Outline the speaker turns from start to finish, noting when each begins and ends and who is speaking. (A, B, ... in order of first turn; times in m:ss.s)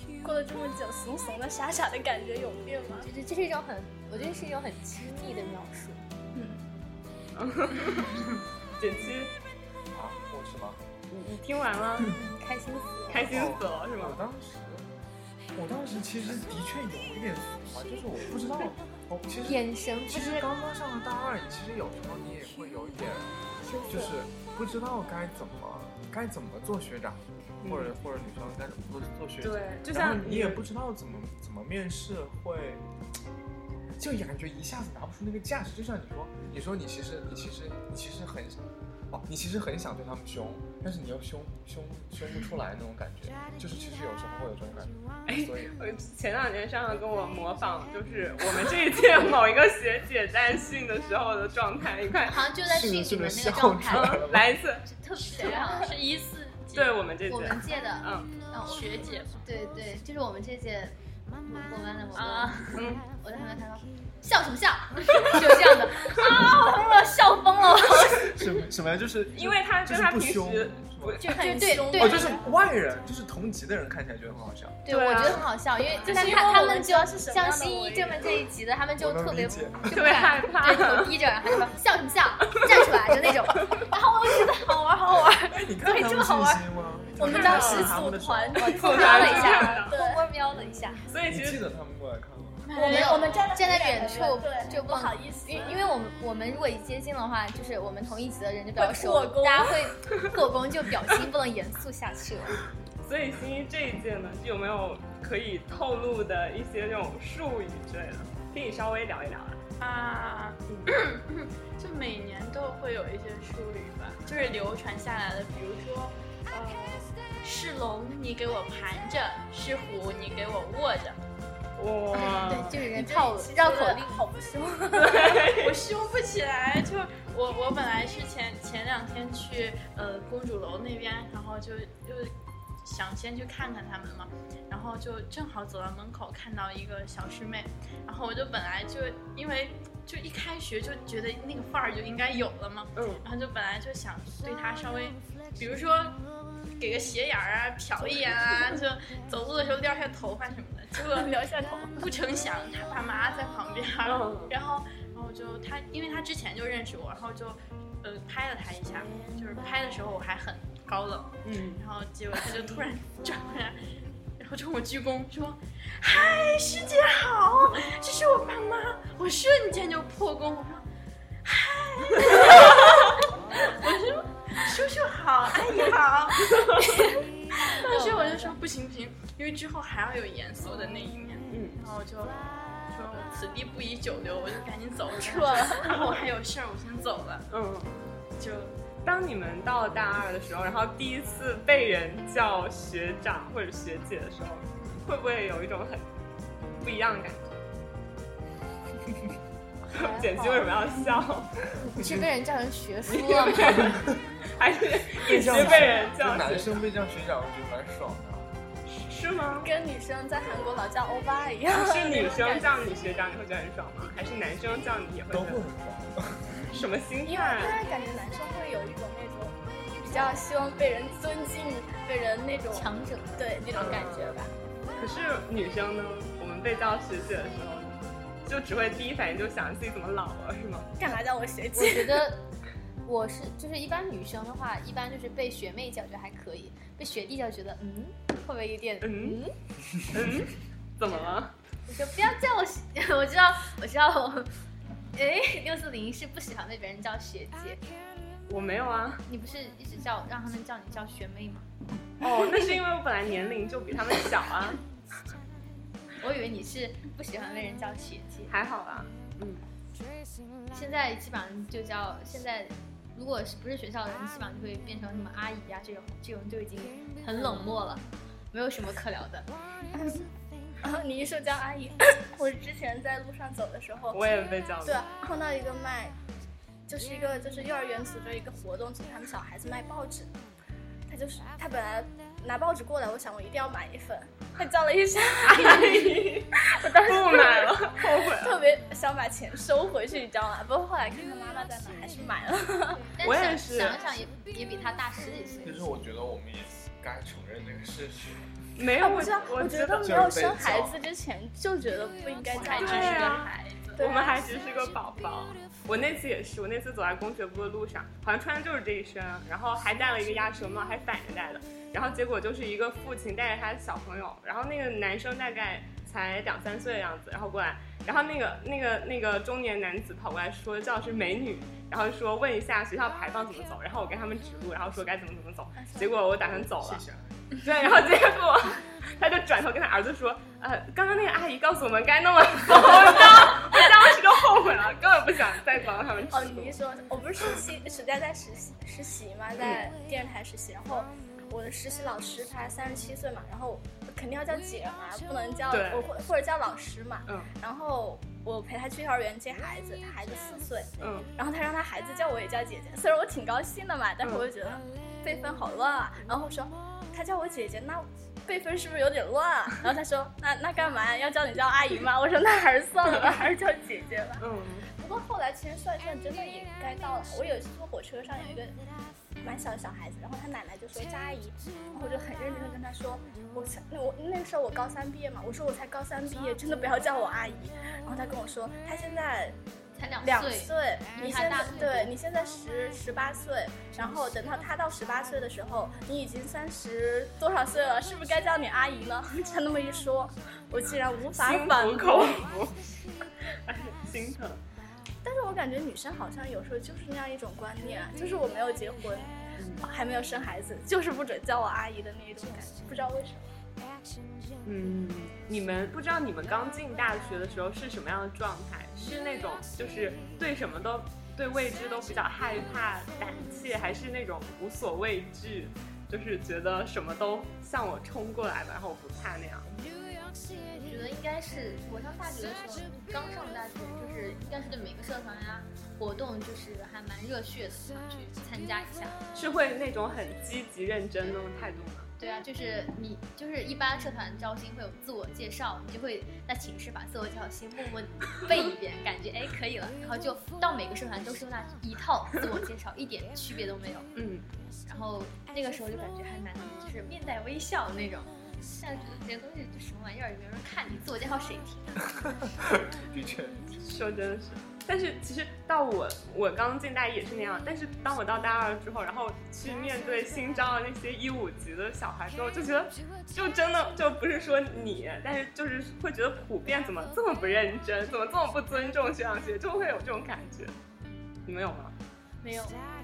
0:00.2-0:03.1 A
0:03.0-0:06.0 B
0:06.3-0:06.6 A
0:07.3-0:09.3 C
0:09.9-0:10.8 D
0:11.1-0:12.1 C
0:12.1-0:13.5 B
0:13.1-0:14.2 C
0:13.2-0:14.9 D
0:15.5-0:23.3 D
0:19.4-0:20.4 B
0:23.6-0:24.1 B
0:23.9-0:32.8 D
0:27.6-0:27.9 C
0:29.4-0:30.6 C
0:34.0-0:45.7 D
0:45.3-0:52.5 C
0:52.2-0:54.2 B
0:52.6-0:54.5 D
0:53.9-0:54.8 C
0:54.8-0:55.9 B
0:55.2-0:57.0 E
0:55.3-0:55.8 A
0:56.7-0:58.3 C
0:57.3-1:08.5 B
0:58.7-0:59.4 E
1:02.1-1:02.9 E
1:02.8-1:03.0 C
1:08.1-1:11.2 D
1:09.3-1:11.3 C
1:11.2-1:12.4 B
1:11.3-1:12.4 A
1:11.9-1:14.8 D
1:14.8-1:24.9 B
1:14.9-1:15.5 C
1:16.0-1:18.4 A
1:19.0-1:20.2 D
1:19.9-1:21.1 C
1:24.3-1:26.6 E
1:25.5-1:28.7 D
1:27.2-1:30.3 A
1:27.2-1:28.0 C
1:27.3-1:28.0 B
1:27.5-1:28.3 E
1:28.5-1:31.0 B
1:28.8-1:29.9 C
1:31.1-1:31.6 C
1:31.3-1:32.7 D
1:32.6-1:33.4 E
1:32.7-1:35.8 A
1:32.8-1:42.6 B
1:38.8-1:39.8 A
1:43.0-1:49.6 C
1:49.8-2:01.2 E
2:01.8-2:02.8 C
2:02.1-2:04.2 B
2:02.8-2:05.5 A
2:04.9-2:05.8 C
2:05.5-2:26.2 E
2:23.0-2:23.2 C
2:26.8-2:31.3 E
2:31.0-2:32.0 A
2:32.0-2:43.8 E
2:34.0-2:34.5 C
2:41.4-2:41.8 C
2:44.4-2:50.8 E
2:51.4-2:56.8 E
2:56.7-2:58.6 B
2:57.5-3:07.5 E
3:01.5-3:01.8 C
3:05.2-3:06.0 A
3:07.5-3:08.1 C
3:08.4-3:08.8 E
3:09.0-3:16.1 C
3:16.8-3:17.6 C
3:19.9-3:21.2 B
3:19.9-3:21.5 C
3:21.8-3:24.0 B
3:21.9-3:22.3 D
3:23.1-3:24.0 C
3:23.6-3:24.2 D
3:24.5-3:26.8 C
3:25.2-3:28.5 D
3:25.5-3:25.9 B
3:28.9-3:29.7 C
3:29.6-3:32.8 A
3:31.7-3:35.6 C
3:35.3-3:36.7 D
3:36.7-3:37.8 C
3:37.2-3:44.5 A
3:42.7-3:44.1 B
3:43.7-3:44.3 C
3:45.0-3:50.9 C
3:51.0-3:52.3 A
3:51.7-3:52.4 B
3:53.0-3:59.5 B
3:59.0-3:59.4 C
4:00.1-4:01.5 C
4:01.1-4:01.4 B
4:01.9-4:04.5 B
4:05.1-4:07.8 B
4:08.5-4:09.2 C
4:09.3-4:11.7 B
4:12.2-4:14.8 C
4:16.2-4:18.5 B
4:18.5-4:19.6 C
4:20.7-4:29.5 B
4:29.9-4:30.3 A
4:30.8-4:34.2 A
4:34.1-4:35.0 C
4:34.8-4:36.2 A
4:36.9-4:40.3 A
4:41.1-4:53.2 A
4:45.4-4:48.6 C
4:53.2-4:55.8 B
4:53.2-4:54.0 C
4:55.6-4:58.6 D
4:58.8-5:00.2 C
4:59.0-5:03.4 A
5:00.0-5:01.0 D
5:02.5-5:04.0 E
5:02.7-5:27.0 C
5:04.0-5:04.4 A
5:25.8-5:26.2 A
5:26.5-5:27.6 D
5:27.6-5:36.8 C
5:36.3-6:08.7 A
5:39.6-5:39.8 C
5:45.7-5:46.1 C
5:51.0-5:51.3 C
5:54.2-5:54.5 C
6:04.4-6:04.9 C
6:09.4-6:19.6 A
6:20.0-6:22.2 B
6:20.2-6:32.5 A
6:31.3-6:32.8 C
6:33.6-6:34.6 C
6:35.2-6:43.5 A
6:39.6-6:39.8 C
6:44.6-6:59.7 C
7:00.4-7:09.2 B
7:09.3-7:12.1 C
7:12.2-7:24.1 B
7:24.2-7:24.5 C
7:24.8-7:32.1 B
7:32.2-7:33.8 D
7:33.8-7:50.7 C
7:51.4-7:51.9 C
7:52.4-7:52.8 E